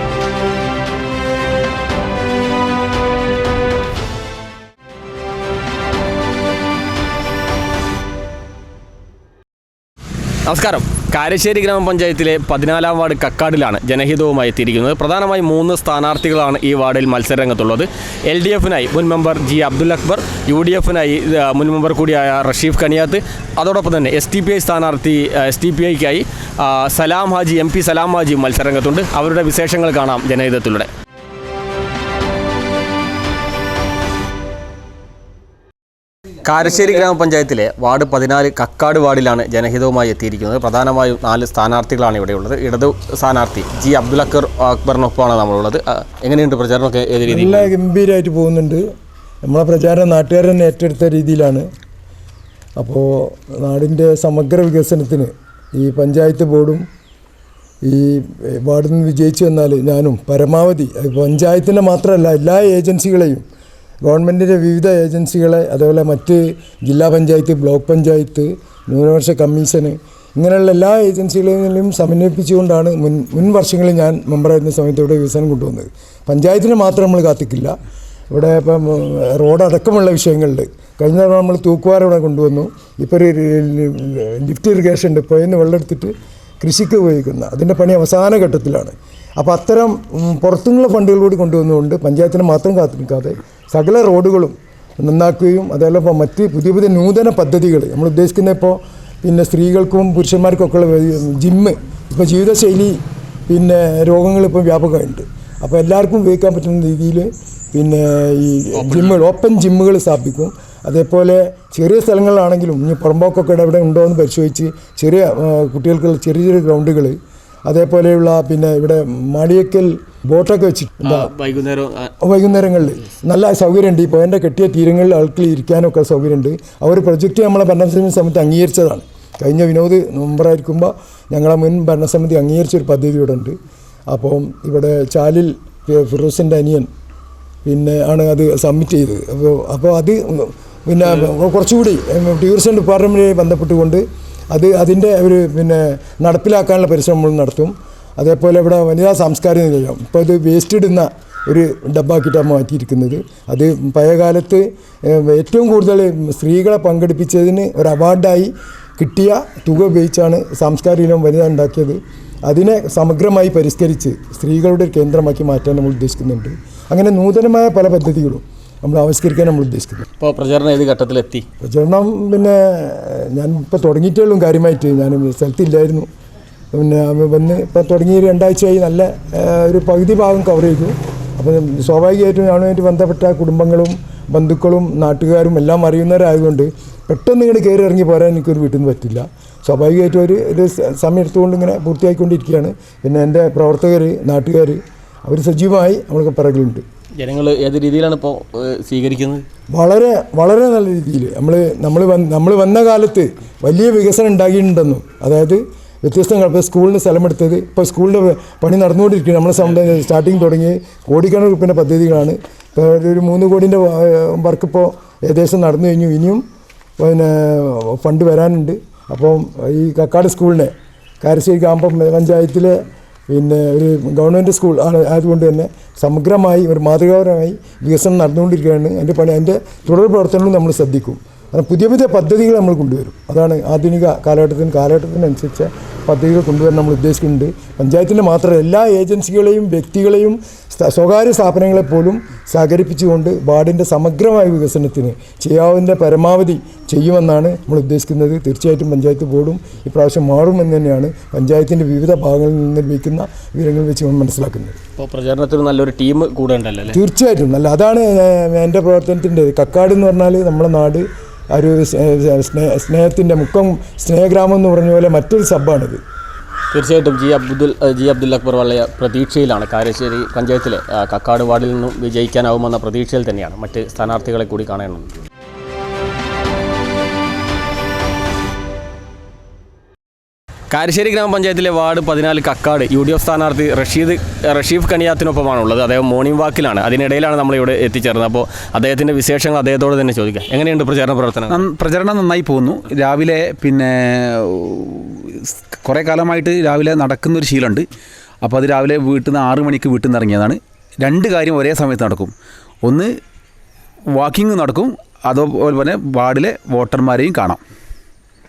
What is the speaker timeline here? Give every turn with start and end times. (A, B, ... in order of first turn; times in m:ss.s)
0:10.5-0:30.9 A
0:36.4-0:47.7 A
0:47.2-0:48.8 B
0:49.4-0:51.6 B
0:52.8-0:56.8 B
0:57.8-1:03.4 B
1:04.0-1:17.7 B
1:18.3-1:43.0 B
1:43.5-2:01.3 B
1:48.7-1:49.2 A
2:01.0-2:02.1 A
2:02.2-2:13.5 B
2:14.1-2:16.9 B
2:17.6-2:50.0 B
2:50.2-2:51.4 A
2:51.6-2:56.1 B
2:56.7-3:16.8 B
3:17.2-3:19.4 A
3:19.7-3:36.4 B
3:37.0-4:14.8 B
4:15.0-4:17.0 A
4:16.9-4:26.0 B
4:26.7-4:35.1 A
4:40.7-4:51.6 A
4:51.5-4:57.8 C
4:58.4-5:02.3 C
5:04.2-5:07.6 C